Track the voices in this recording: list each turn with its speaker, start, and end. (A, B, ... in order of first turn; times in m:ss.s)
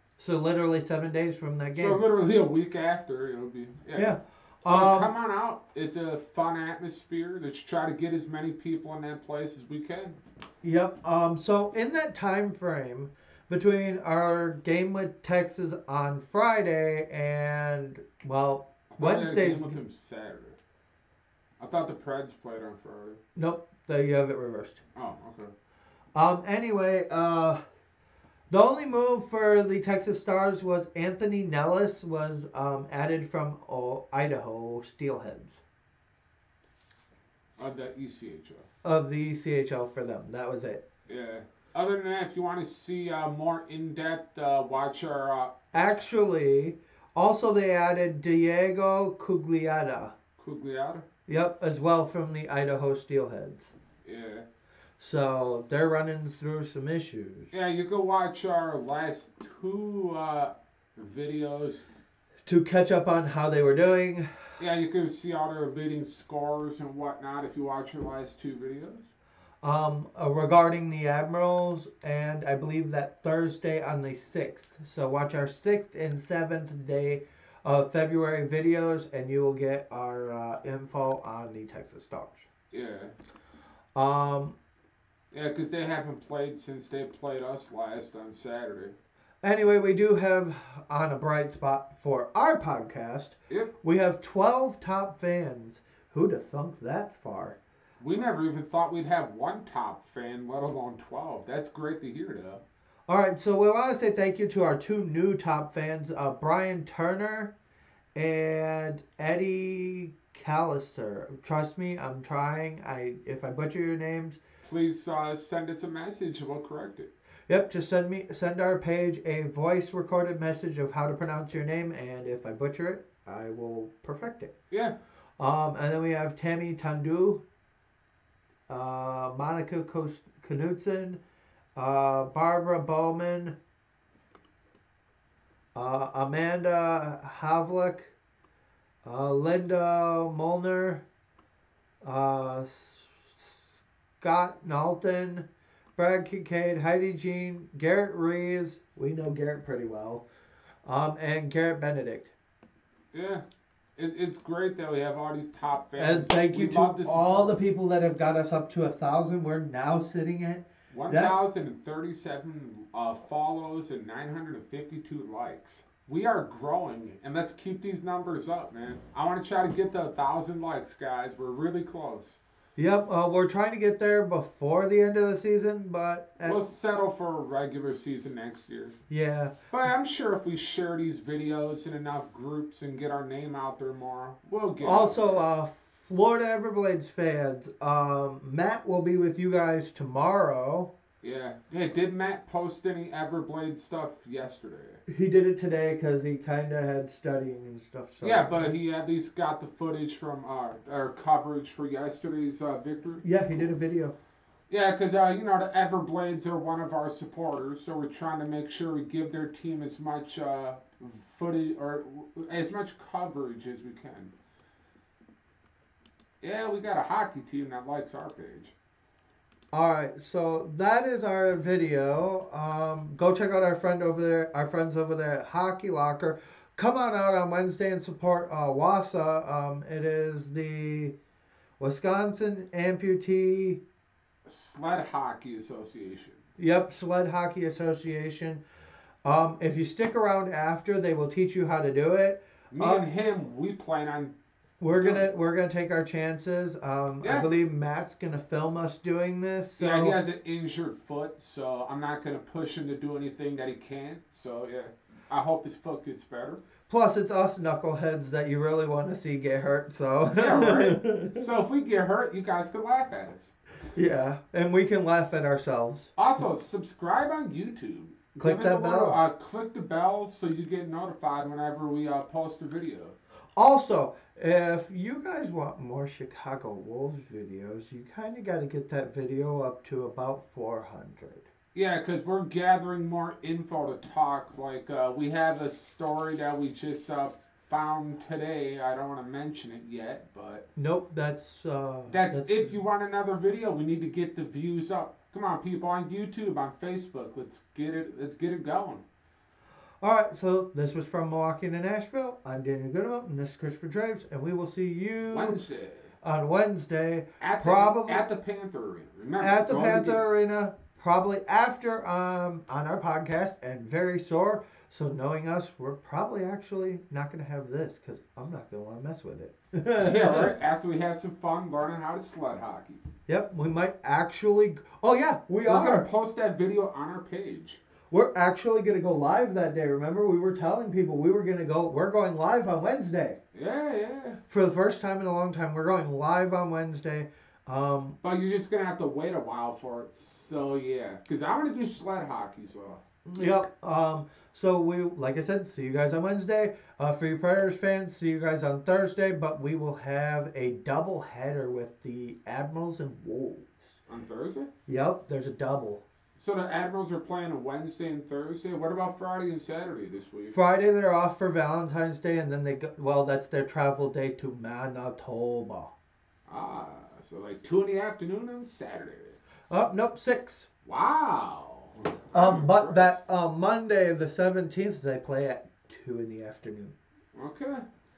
0:00.2-0:02.0 A
0:01.7-0:10.2 B
0:03.9-0:05.1 A
0:10.6-0:19.8 A
0:18.9-0:20.6 B
0:21.6-0:23.2 B
0:23.4-0:24.8 A
0:24.9-0:25.5 B
0:26.1-0:27.6 A
0:28.5-0:35.6 A
0:37.6-0:38.6 B
0:38.8-0:40.8 A
0:41.1-0:45.5 B
0:45.7-0:50.1 A
0:50.4-0:51.0 B
0:51.3-0:53.7 A
0:54.0-0:54.4 B
0:55.0-0:57.5 A
0:57.5-1:01.8 B
1:02.4-1:04.3 A
1:04.6-1:09.1 B
1:09.6-1:22.5 A
1:22.7-1:23.1 B
1:24.0-1:24.6 A
1:25.3-1:29.0 B
1:29.4-1:37.6 A
1:38.0-1:42.6 B
1:43.1-1:47.5 A
1:48.1-1:54.4 A
1:54.6-1:57.1 B
1:57.5-2:04.5 A
2:05.4-2:07.4 A
2:08.7-2:11.2 A
2:11.8-2:13.6 A
2:15.7-2:18.1 A
2:19.0-2:21.0 A
2:22.0-2:30.2 A
2:30.8-2:32.3 A
2:33.1-2:33.4 B
2:34.0-2:37.6 B
2:36.0-2:41.4 A
2:40.9-2:52.4 B
2:52.8-2:56.6 A
2:56.4-2:59.0 B
2:59.1-2:59.5 A
2:59.7-3:05.4 B
3:04.8-3:10.9 A
3:11.2-3:15.0 B
3:15.1-3:18.7 A
3:18.2-3:23.2 B
3:23.2-3:24.1 A
3:24.7-3:34.3 B
3:36.4-3:38.7 B
3:39.7-3:51.1 A
3:51.8-3:53.8 A
3:54.4-3:56.4 B
3:56.6-3:58.6 A
3:59.2-4:03.0 A
4:02.7-4:04.3 B
4:04.8-4:10.2 A
4:04.9-4:05.3 B
4:07.2-4:07.5 B
4:09.8-4:16.6 B
4:16.9-4:21.5 A
4:20.4-4:23.5 B
4:23.9-4:26.4 A
4:26.2-4:33.2 B
4:28.4-4:29.2 A
4:33.6-4:41.5 A
4:41.7-4:50.6 B
4:50.8-4:52.8 A
4:52.1-4:59.0 B
5:00.0-5:05.6 A
5:05.3-5:06.1 B
5:06.2-5:08.2 A
5:07.4-5:10.2 B
5:09.4-5:20.5 A
5:20.0-5:23.0 B
5:23.3-5:26.1 A
5:25.6-5:27.8 B
5:28.1-5:33.4 A
5:33.5-5:34.4 B
5:34.5-5:38.2 A
5:38.2-5:43.4 B
5:43.2-5:54.0 A
5:54.1-5:54.7 B
5:54.9-5:56.0 A
5:56.4-6:00.6 B
6:00.5-6:05.9 A
6:06.5-6:09.4 B
6:09.7-6:10.7 A
6:10.8-6:13.2 B
6:12.3-6:16.9 A
6:17.3-6:17.8 B